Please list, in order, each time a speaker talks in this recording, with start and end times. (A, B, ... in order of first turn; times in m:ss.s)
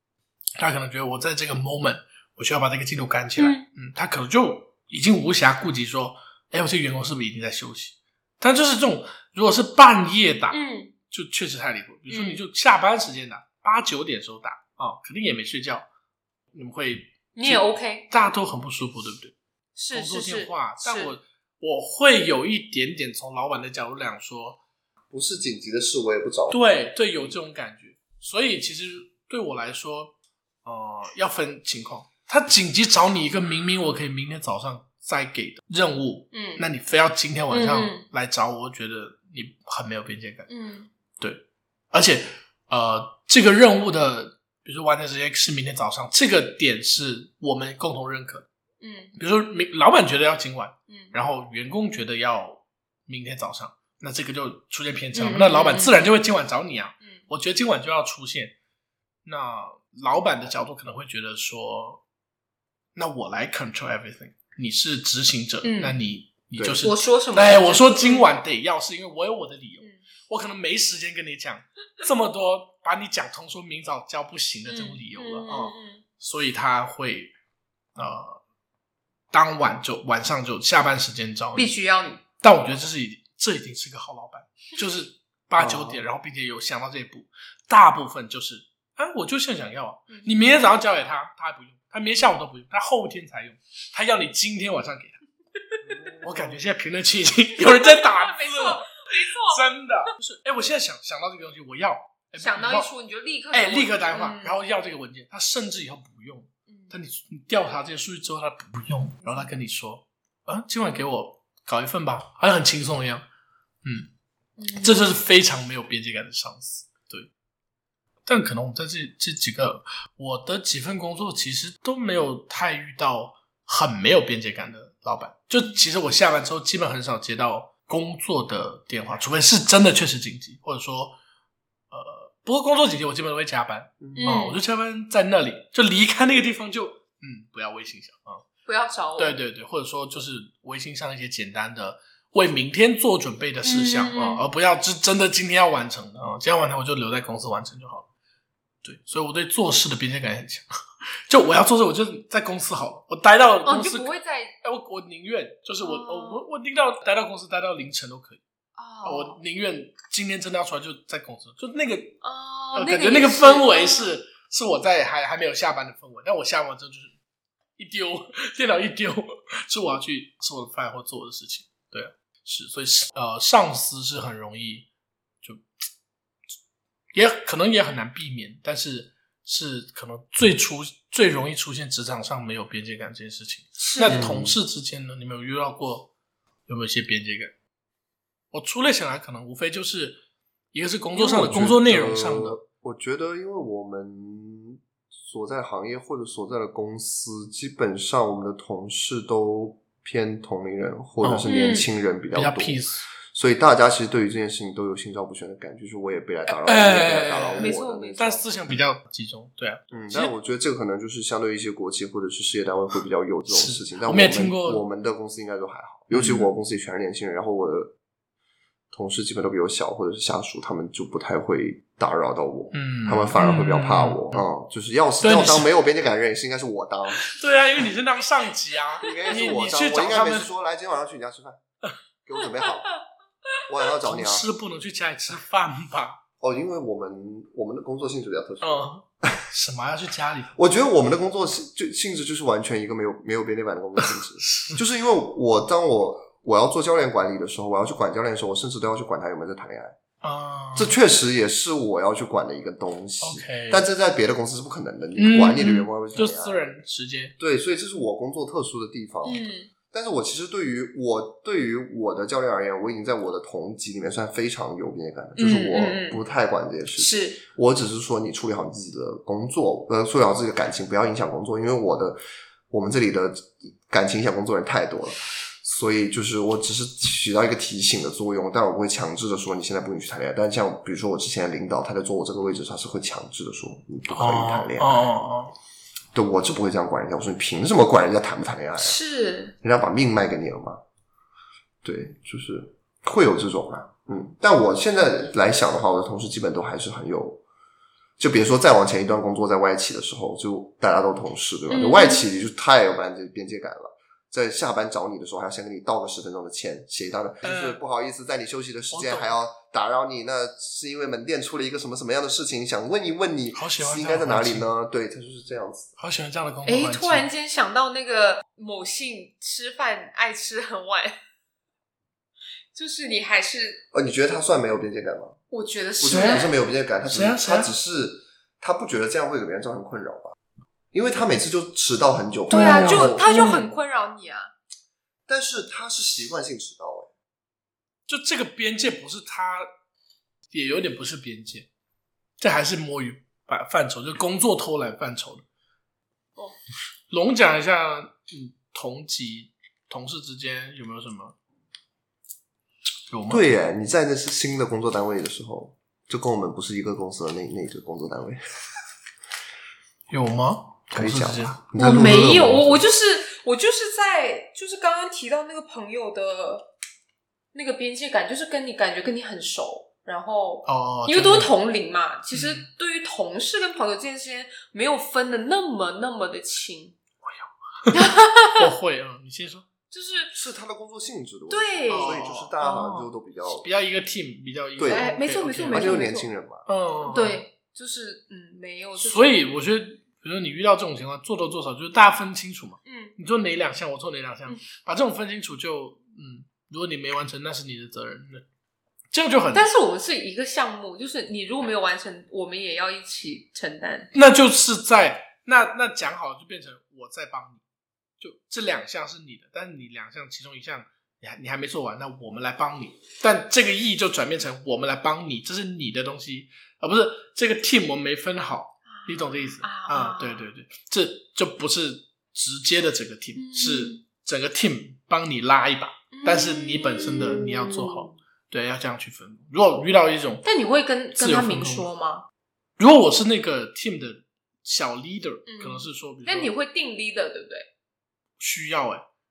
0:00.6-0:10.6 A
0:03.4-0:03.7 B
0:10.5-0:10.9 B
0:11.1-0:15.9 A
0:12.1-0:12.4 B
0:16.5-0:19.3 A
0:17.4-0:18.1 B
0:19.8-0:21.1 B
0:19.9-0:24.6 A
0:25.1-0:26.6 C
0:26.5-0:30.1 A
0:30.6-0:40.5 A
0:36.3-0:36.6 B
0:37.5-0:38.1 B
0:40.5-0:40.9 B
0:41.2-0:48.5 A
0:48.8-0:49.2 B
0:49.2-0:58.5 A
0:50.9-0:51.1 B
0:55.2-0:56.1 B
0:59.2-1:02.0 A
1:03.0-1:17.3 A
1:05.6-1:06.0 B
1:06.6-1:06.8 C
1:06.8-1:08.3 B
1:14.7-1:16.0 B
1:18.0-1:18.4 A
1:19.3-1:21.7 A
1:21.6-1:22.2 B
1:22.4-1:35.2 A
1:25.6-1:26.0 C
1:30.1-1:30.4 B
1:35.8-1:36.6 C
1:36.2-1:42.9 A
1:37.6-1:39.6 B
1:42.4-1:44.6 B
1:43.5-1:53.2 A
1:46.7-1:46.9 B
1:53.8-1:54.1 A
1:54.6-1:55.1 B
1:54.8-1:57.3 A
1:58.3-2:11.2 A
2:11.9-2:18.4 A
2:14.0-2:14.4 C
2:14.2-2:14.6 B
2:18.7-2:19.4 B
2:19.2-2:28.1 A
2:23.6-2:24.4 B
2:28.8-2:30.7 A
2:31.3-2:34.1 A
2:33.6-2:34.6 B
2:34.6-2:38.4 A
2:35.8-2:36.4 B
2:38.8-2:39.4 B
2:39.0-2:42.2 A
2:42.2-2:44.2 B
2:42.8-2:47.2 A
2:47.8-2:54.9 A
2:57.1-3:06.1 A
3:03.8-3:04.2 B
3:04.1-3:04.6 C
3:06.7-3:07.5 A
3:08.5-3:10.2 A
3:10.7-3:12.6 A
3:11.2-3:28.3 C
3:21.2-3:21.5 A
3:21.5-3:21.9 B
3:22.3-3:23.1 A
3:26.5-3:30.3 A
3:27.6-3:28.4 B
3:29.9-3:37.9 C
3:33.5-3:34.8 A
3:36.1-3:36.5 A
3:38.9-3:47.3 C
3:42.7-3:44.5 A
3:45.2-3:45.8 A
3:47.2-3:50.5 A
3:49.0-3:51.6 C
3:49.1-3:49.4 B
3:52.3-3:52.9 C
3:53.7-3:54.5 C
3:54.0-3:56.2 A
3:56.4-3:59.4 C
3:58.6-4:00.5 A
4:00.6-4:10.0 C
4:04.0-4:04.8 A
4:10.2-4:11.0 A
4:10.8-4:16.6 C
4:13.2-4:13.8 A
4:15.2-4:17.4 A
4:17.4-4:32.2 C
4:19.2-4:19.7 B
4:25.4-4:26.2 B
4:27.0-4:27.4 B
4:32.7-4:45.1 C
4:44.1-4:45.5 A
4:46.1-4:49.0 C
4:48.8-4:49.6 B
4:49.6-4:50.8 C
4:51.8-4:57.4 C
4:58.2-5:15.9 C
5:01.7-5:02.2 B
5:07.4-5:07.8 A
5:08.9-5:09.4 A
5:13.5-5:14.7 A
5:16.0-5:17.3 A
5:16.7-5:21.2 B
5:22.7-5:23.8 B
5:23.9-5:25.4 C
5:25.5-5:26.5 B
5:26.0-5:30.4 C
5:26.1-5:26.5 A
5:27.0-5:27.7 A
5:30.9-5:33.4 C
5:32.5-5:33.7 A
5:32.5-5:34.5 B
5:35.3-5:37.1 C
5:38.1-5:39.7 A
5:40.5-5:41.7 A
5:42.4-5:45.4 A
5:47.1-5:51.4 A
5:53.1-5:53.5 A
5:53.3-5:58.6 C
6:00.1-6:02.3 A
6:00.9-6:02.8 C
6:01.8-6:06.7 B
6:07.5-6:17.0 B
6:10.7-6:11.5 A
6:12.3-6:12.7 A
6:17.2-6:19.7 A
6:17.9-6:18.7 B
6:19.9-6:20.4 B
6:20.3-6:23.7 C
6:21.5-6:22.2 B
6:21.9-6:26.0 A
6:24.8-6:25.1 C
6:24.9-6:26.3 B
6:25.7-6:26.7 C
6:26.7-6:27.4 A
6:27.0-6:29.4 B
6:29.0-6:38.4 A
6:32.8-6:33.2 B
6:39.1-6:39.7 A
6:39.5-6:44.1 B
6:44.1-6:47.6 A
6:48.2-7:10.4 A
6:58.9-7:00.5 B
7:03.4-7:04.0 B
7:06.1-7:08.1 B
7:10.4-7:12.3 B
7:11.2-7:11.9 A
7:12.8-7:16.5 A
7:15.5-7:17.7 B
7:18.4-7:19.0 A